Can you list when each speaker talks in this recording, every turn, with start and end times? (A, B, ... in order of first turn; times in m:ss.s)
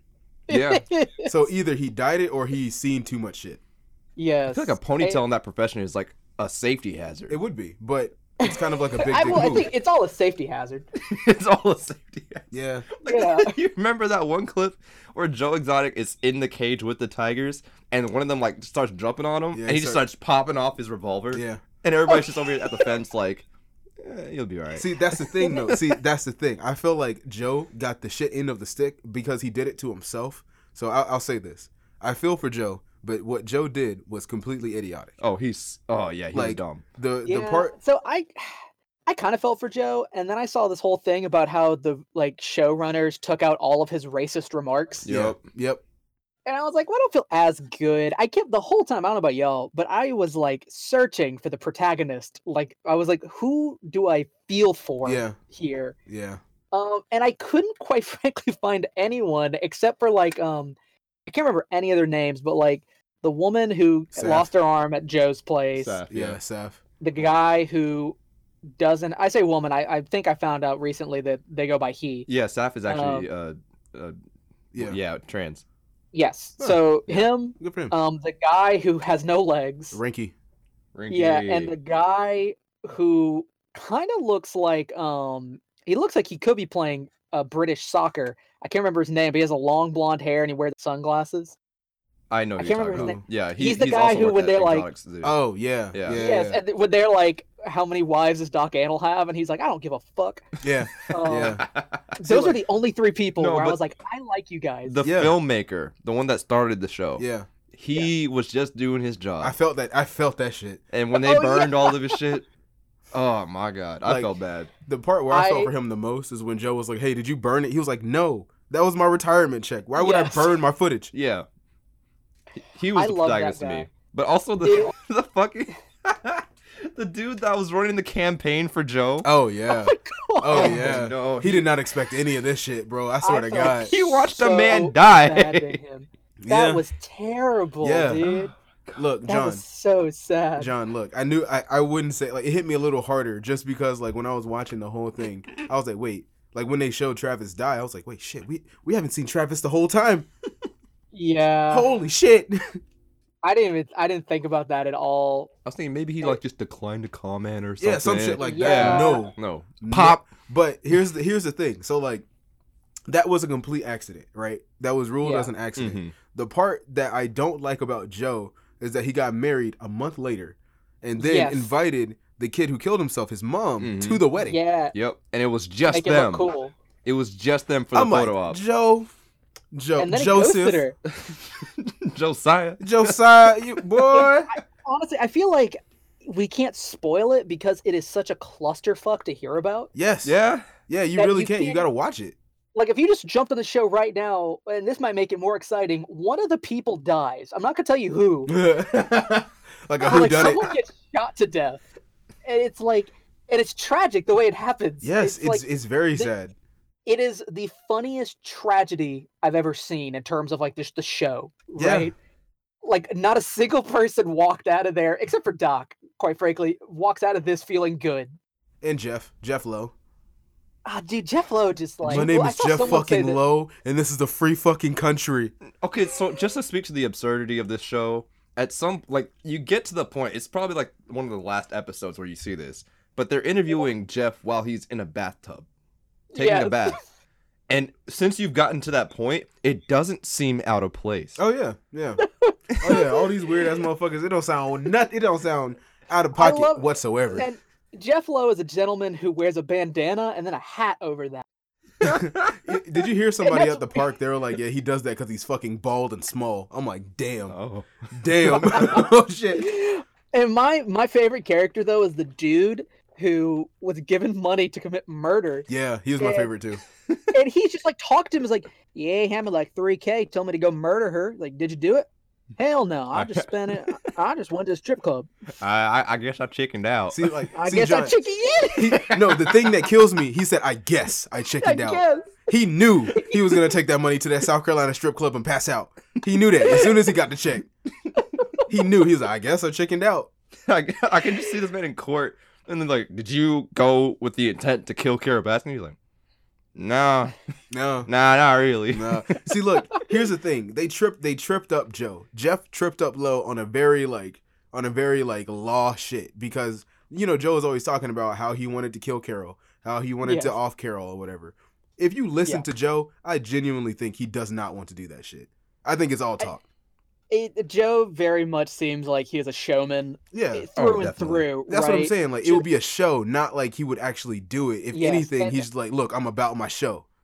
0:00.5-0:01.3 A
0:00.5-0:00.8 B
0:01.2-0:03.6 C
0:04.2-0:05.2 A
0:04.5-0:07.4 B
0:07.3-0:09.7 C
0:08.4-0:10.9 A
0:11.0-0:23.4 B
0:12.5-0:12.9 C
0:13.0-0:13.6 A
0:19.5-0:20.0 C
0:21.3-0:21.6 C
0:22.1-0:22.8 A
0:24.0-0:26.0 B
0:24.7-0:35.1 C
0:35.2-0:36.8 B
0:36.3-0:37.8 C
0:37.2-0:45.0 A
0:45.0-0:45.4 B
0:45.0-0:45.8 C
0:46.5-0:56.0 A
0:55.0-0:55.4 C
0:56.1-0:56.4 C
0:56.7-1:00.8 A
1:01.3-1:06.0 A
1:04.1-1:04.5 C
1:05.8-1:06.4 B
1:06.1-1:06.8 C
1:07.0-1:08.2 A
1:08.8-1:12.3 A
1:12.3-1:14.2 B
1:12.9-1:13.3 A
1:14.8-1:15.6 B
1:16.1-1:20.0 A
1:17.6-1:18.0 C
1:19.9-1:20.3 C
1:21.0-1:21.7 B
1:21.1-1:31.6 A
1:32.3-1:35.4 B
1:32.6-1:34.9 A
1:33.0-1:33.2 C
1:35.2-1:36.6 C
1:35.9-1:36.2 B
1:36.2-1:40.6 A
1:40.6-1:41.6 C
1:41.1-1:41.6 A
1:41.2-1:42.5 B
1:42.2-1:45.0 A
1:42.3-1:42.6 C
1:43.4-1:43.8 B
1:44.8-1:49.6 B
1:45.0-1:45.4 C
1:47.2-1:47.5 C
1:49.4-1:50.8 C
1:50.9-1:52.4 B
1:51.2-1:52.2 A
1:53.1-1:54.7 B
1:54.0-1:54.3 C
1:54.8-2:01.1 C
1:55.3-1:55.7 A
2:00.0-2:00.5 A
2:01.1-2:01.5 B
2:02.8-2:09.3 B
2:03.0-2:03.9 A
2:04.6-2:04.9 A
2:09.2-2:13.9 C
2:09.7-2:11.0 A
2:10.5-2:11.7 B
2:13.2-2:18.5 A
2:13.7-2:15.8 B
2:16.4-2:16.8 C
2:17.8-2:18.2 C
2:18.2-2:19.0 B
2:19.0-2:19.6 C
2:19.3-2:20.7 A
2:20.6-2:30.3 C
2:31.1-2:31.9 A
2:31.7-2:32.6 C
2:33.4-2:35.5 A
2:35.7-2:40.3 B
2:37.8-2:42.2 C
2:38.4-2:39.3 A
2:43.1-2:54.6 C
2:45.2-2:45.5 A
2:45.8-2:46.1 B
2:51.2-2:51.7 A
2:53.8-2:54.2 B
2:54.4-2:54.9 A
2:54.9-2:56.5 B
2:55.9-2:56.7 A
2:57.0-2:58.6 B
2:57.9-2:59.1 C
2:59.7-3:00.8 C
3:00.0-3:01.0 A
3:01.1-3:04.3 B
3:02.8-3:04.5 C
3:04.8-3:09.9 A
3:10.0-3:10.3 C
3:10.2-3:10.7 B
3:10.9-3:12.4 C
3:11.2-3:11.9 A
3:12.8-3:18.6 A
3:18.5-3:20.7 C
3:20.0-3:21.8 A
3:22.4-3:26.3 A
3:25.0-3:26.6 C
3:27.1-3:32.2 A
3:31.8-3:32.1 C
3:32.8-3:38.4 A
3:38.8-3:39.9 C
3:40.8-3:43.4 A
3:42.0-3:45.5 C
3:45.8-3:55.7 B
3:56.3-3:57.0 A
3:56.4-3:57.0 B
3:57.7-4:01.4 B
4:01.4-4:02.2 C
4:02.2-4:03.2 A
4:02.8-4:07.5 C
4:06.4-4:11.4 A
4:12.0-4:12.6 B
4:12.0-4:17.6 C
4:13.4-4:14.0 A
4:17.5-4:19.0 B
4:18.1-4:19.7 C
4:19.5-4:25.7 A
4:25.7-4:26.8 C
4:26.2-4:26.5 A
4:27.3-4:35.3 A
4:33.1-4:34.0 B
4:35.6-4:37.3 B
4:37.1-4:38.2 C
4:37.6-4:39.1 A
4:38.8-4:47.7 C
4:39.1-4:39.6 B
4:41.6-4:42.3 A
4:46.6-4:46.9 A
4:48.2-4:48.7 A
4:48.7-4:50.3 C
4:50.7-4:56.0 B
4:56.8-4:57.4 B
4:57.7-4:58.1 C
4:58.1-4:59.6 B
4:58.9-5:16.6 C
5:10.2-5:10.6 A
5:17.3-5:22.7 A
5:20.3-5:27.1 C
5:20.8-5:21.4 B
5:24.9-5:25.7 A